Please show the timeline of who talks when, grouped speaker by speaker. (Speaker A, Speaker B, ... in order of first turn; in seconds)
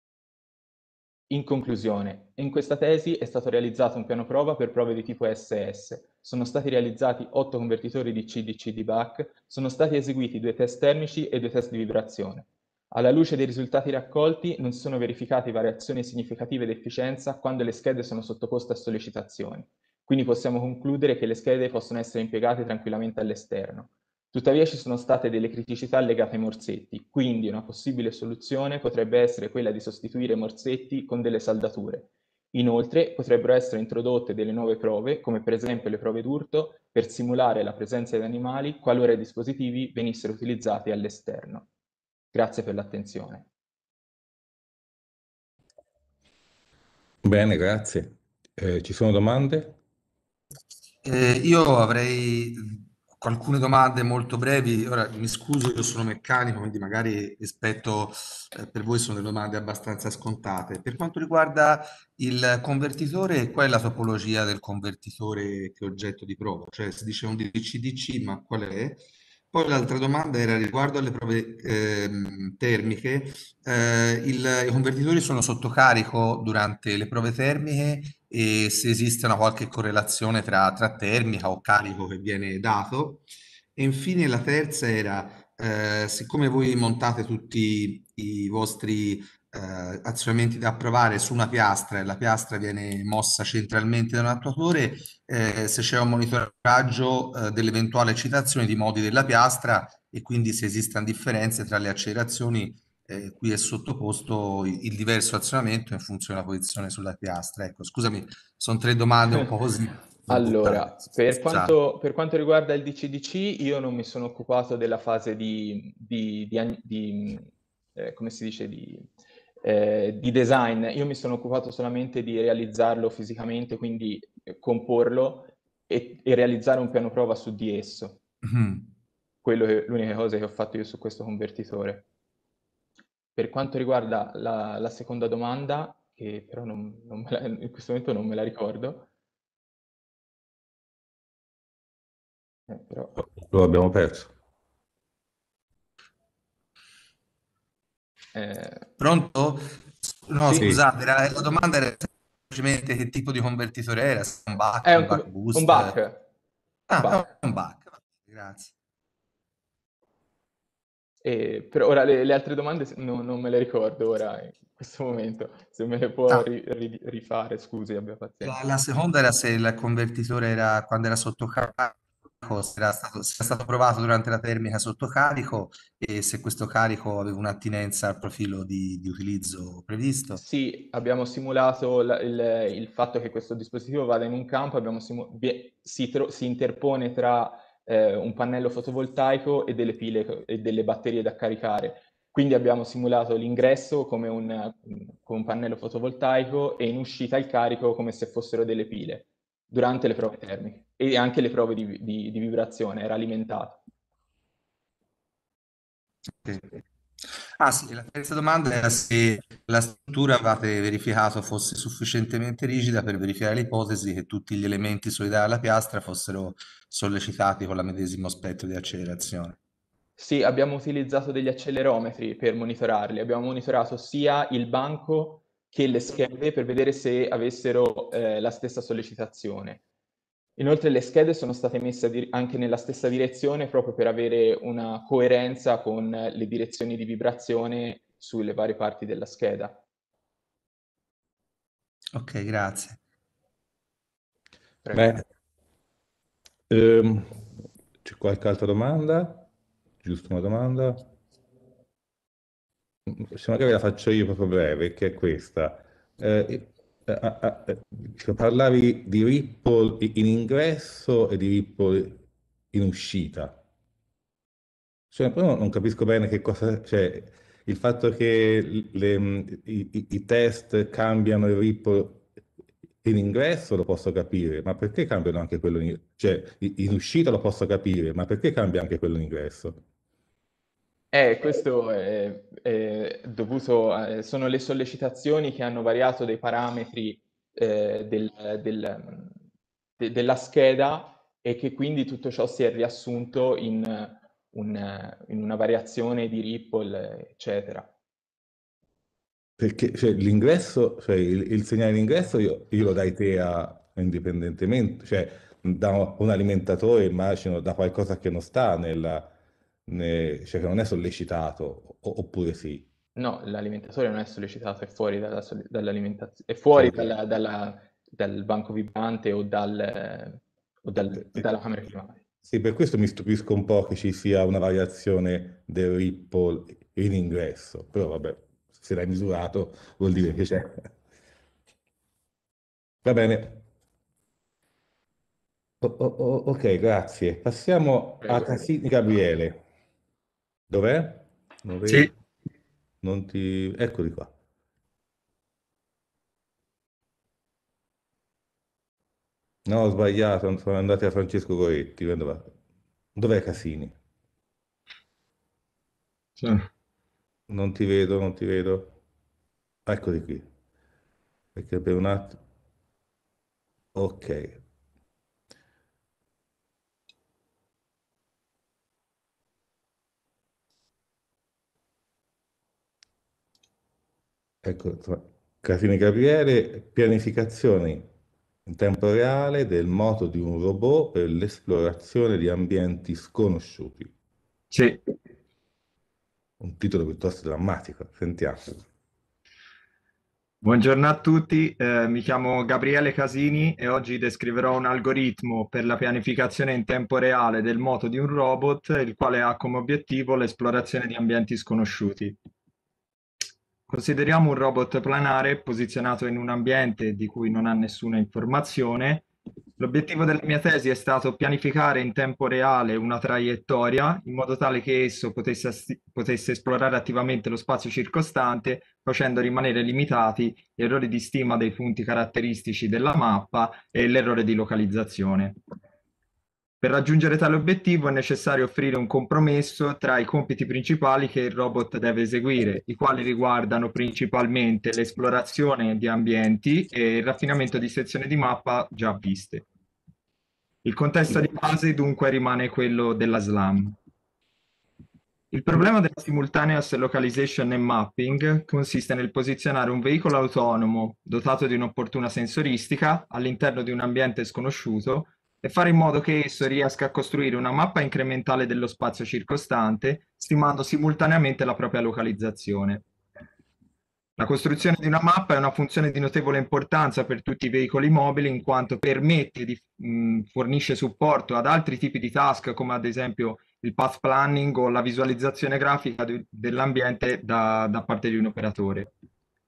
Speaker A: 1.3-41.7, 42.3-43.5, 110.3-119.1, 119.6-128.2, 129.4-132.0, 133.3-139.1, 142.7-143.1, 148.3-148.9, 154.8-156.2, 161.2-168.6, 180.4-203.8, 220.2-229.8, 230.6-239.8, 281.1-289.4, 290.0-297.9, 313.1-322.2
Speaker B: 47.2-49.8, 143.2-144.3, 150.5-150.8, 244.9-245.2, 246.7-247.5, 248.0-249.5, 250.0-251.1, 253.1-262.2, 262.7-263.6, 265.1-272.3, 273.0-279.8, 299.6-309.3, 309.9-312.8, 316.8-317.1, 322.4-330.9, 333.0-333.6, 335.8-339.6, 340.7-342.1, 343.0-344.3, 349.6-352.5, 353.1-353.9, 357.5-358.9, 359.9-360.4, 361.5-362.4, 363.9-364.6, 374.6-378.1, 378.6-384.1, 386.6-388.8
Speaker C: 51.0-83.2, 83.8-111.7, 128.4-128.9, 149.0-155.9, 156.9-158.7, 168.4-180.4, 206.4-206.8, 207.6-219.6, 242.1-243.0
Speaker D: 384.7-385.0, 390.6-402.4, 403.9-409.2, 409.8-425.6, 426.8-439.6, 440.8-443.9, 445.5-463.0, 464.4-479.1